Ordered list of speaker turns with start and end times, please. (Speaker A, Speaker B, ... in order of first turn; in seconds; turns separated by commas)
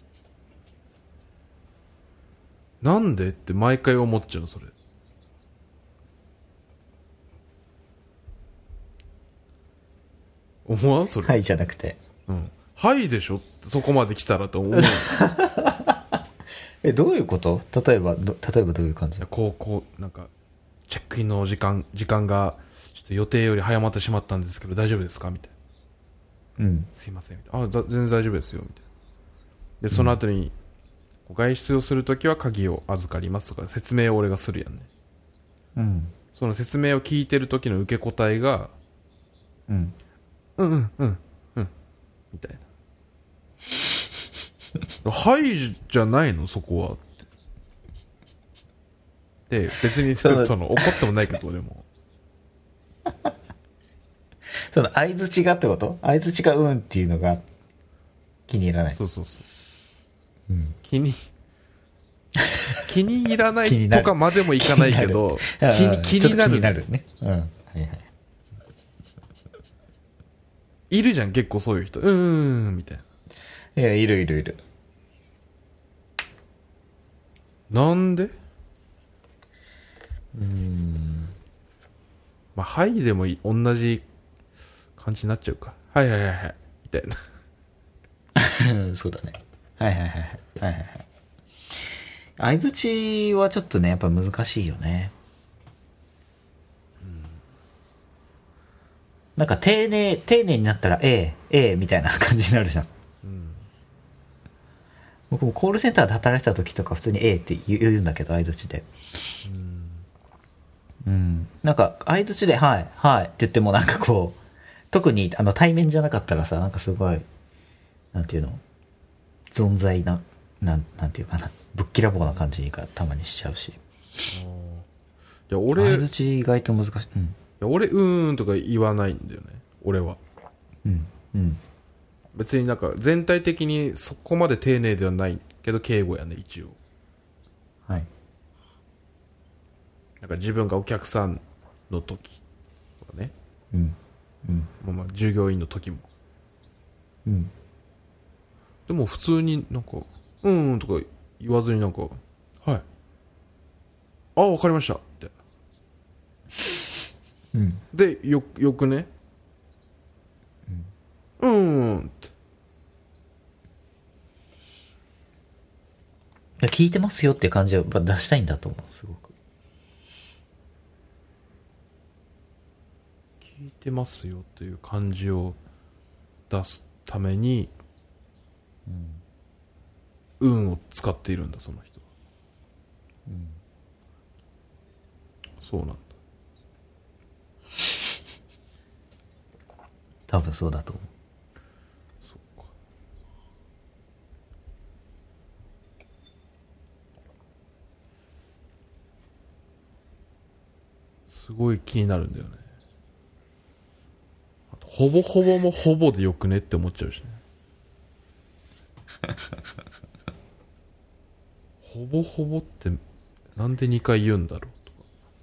Speaker A: 2.8-4.7, Speaker A: 10.7-11.4, Speaker B: 11.2-12.0, Speaker A: 12.3-15.2, Speaker B: 14.7-16.0, Speaker B: 16.8-19.3, Speaker A: 19.2-20.3, Speaker A: 20.9-25.5, Speaker B: 26.6-26.9, Speaker A: 27.0-28.8, Speaker A: 29.8-30.5, Speaker B: 29.9-30.2, Speaker A: 31.3-34.9, Speaker B: 35.8-36.1, Speaker A: 36.3-38.8, Speaker B: 39.7-40.0, Speaker A: 40.6-41.7, Speaker A: 42.3-42.6, Speaker A: 45.0-47.3, Speaker A: 49.5-51.9, Speaker B: 50.0-51.1, Speaker B: 54.7-57.4, Speaker B: 58.5-59.0, Speaker A: 59.0-59.5, Speaker B: 60.5-60.8, Speaker A: 60.8-61.3, Speaker A: 62.9-66.8, Speaker B: 63.6-68.1, Speaker A: 70.9-73.0, Speaker B: 73.8-74.6, Speaker A: 77.7-78.3, Speaker B: 80.3-81.4, Speaker A: 82.6-84.0, Speaker A: 85.0-87.2, Speaker B: 88.4-91.0, Speaker B: 92.4-95.1, Speaker A: 97.0-97.4, Speaker B: 99.4-102.9, Speaker A: 103.2-103.7, Speaker B: 105.3-108.9, Speaker A: 109.4-110.1, Speaker B: 111.0-114.4, Speaker B: 114.9-117.2, Speaker B: 118.1-118.6, Speaker B: 119.5-123.8, Speaker A: 124.3-124.9, Speaker A: 125.5-126.1, Speaker B: 125.8-127.4, Speaker A: 127.6-130.2, Speaker B: 130.8-131.6, Speaker A: 132.3-136.8, Speaker A: 140.2-142.4, Speaker A: 143.0-143.3, Speaker B: 143.7-144.7, Speaker A: 144.8-146.1, Speaker B: 147.3-147.5, Speaker A: 148.9-152.8, Speaker A: 154.4-155.3, Speaker B: 157.5-157.8, Speaker A: 157.9-159.1, Speaker A: 161.4-162.3, Speaker B: 166.6-169.3, Speaker A: 173.4-175.6, Speaker A: 176.5-177.7, Speaker B: 178.9-179.2, Speaker A: 180.4-182.1, Speaker B: 183.3-183.6, Speaker A: 185.6-186.1, Speaker B: 190.3-191.1, Speaker A: 192.2-192.7, Speaker A: 201.3-202.6, Speaker A: 204.7-207.4, Speaker A: 211.8-213.0, Speaker A: 213.6-215.0